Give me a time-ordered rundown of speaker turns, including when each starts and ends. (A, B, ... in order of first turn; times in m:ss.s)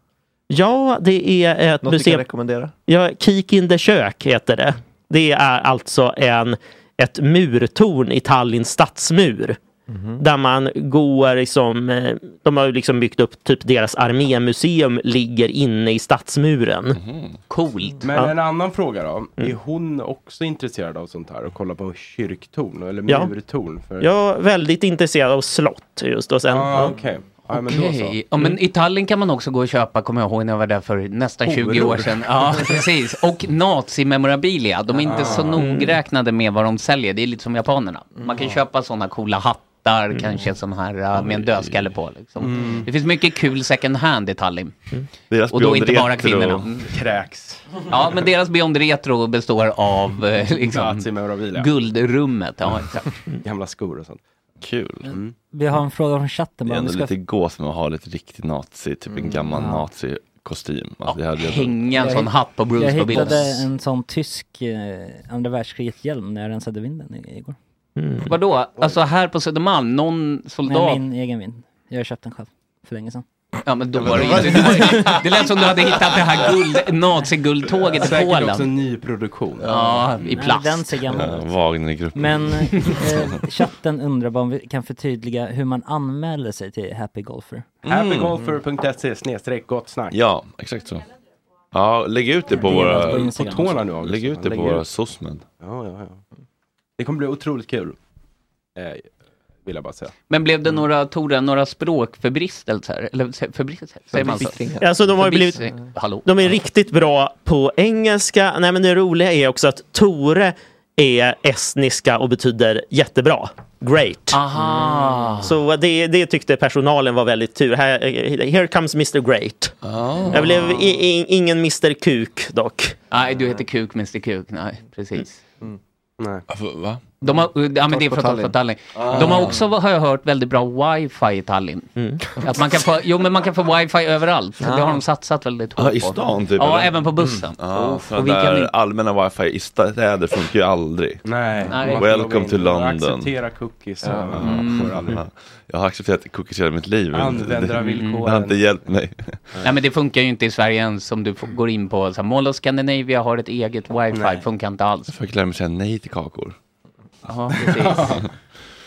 0:00.5-0:02.2 A
0:01.8-0:02.7 B
0:02.9-0:09.6 A
0:09.9-0:10.2 B
0:10.2-0:17.0 A
0:16.9-0:17.4 C
0:17.5-0:18.2 D
0:18.0-0:24.1 E
0:23.1-0:23.3 A
0:24.0-0:27.0 A
0:26.5-0:28.2 E
0:27.5-0:44.7 D
0:31.5-0:32.8 E
0:35.0-0:35.6 E
0:35.5-0:36.0 A
0:41.3-0:41.7 C
0:42.4-0:42.9 E
0:45.3-0:46.7 C
0:45.5-0:46.9 D
0:46.8-0:47.9 E
0:47.9-0:53.1 D
0:50.5-0:51.7 E
0:53.4-0:54.2 E
0:54.6-0:55.1 C
0:55.1-0:55.4 E
0:55.5-0:57.1 F
0:56.7-1:02.0 C
0:59.1-0:59.4 E
0:59.6-0:59.9 F
1:01.1-1:03.7 D
1:02.0-1:07.6 F
1:08.0-1:08.3 A
1:08.2-1:11.0 D
1:10.7-1:13.2 F
1:13.7-1:18.7 D
1:14.1-1:14.9 B
1:17.8-1:20.0 E
1:19.6-1:20.0 B
1:19.7-1:21.0 D
1:20.4-1:21.5 F
1:21.1-1:23.4 C
1:22.2-1:27.7 F
1:27.8-1:28.4 C
1:27.8-1:30.2 E
1:30.1-1:31.1 C
1:31.7-1:33.4 C
1:32.6-1:33.9 F
1:32.7-1:34.9 E
1:33.9-1:35.4 C
1:35.6-1:36.2 E
1:37.0-1:38.0 E
1:38.8-1:39.1 E
1:39.6-1:40.1 E
1:40.3-1:46.3 D
1:44.1-1:45.0 B
1:44.8-1:45.6 A
1:46.2-1:54.4 A
1:54.3-1:55.5 D
1:55.4-1:59.7 A
1:59.8-2:00.7 C
2:00.3-2:03.0 A
2:03.1-2:05.4 D
2:06.2-2:06.5 E
2:06.5-2:07.0 C
2:07.2-2:18.7 D
2:07.9-2:08.6 B
2:09.0-2:09.6 C
2:09.1-2:09.6 B
2:14.6-2:15.0 B
2:15.8-2:16.9 C
2:17.6-2:21.2 C
2:21.2-2:25.2 E
2:21.7-2:22.1 D
2:21.9-2:23.3 C
2:24.0-2:24.4 B
2:24.4-2:29.5 C
2:24.4-2:25.0 D
2:27.1-2:28.7 E
2:27.8-2:28.2 D
2:29.6-2:35.1 D
2:34.1-2:34.4 E
2:35.1-2:36.6 C
2:37.3-2:38.2 D
2:37.6-2:38.3 E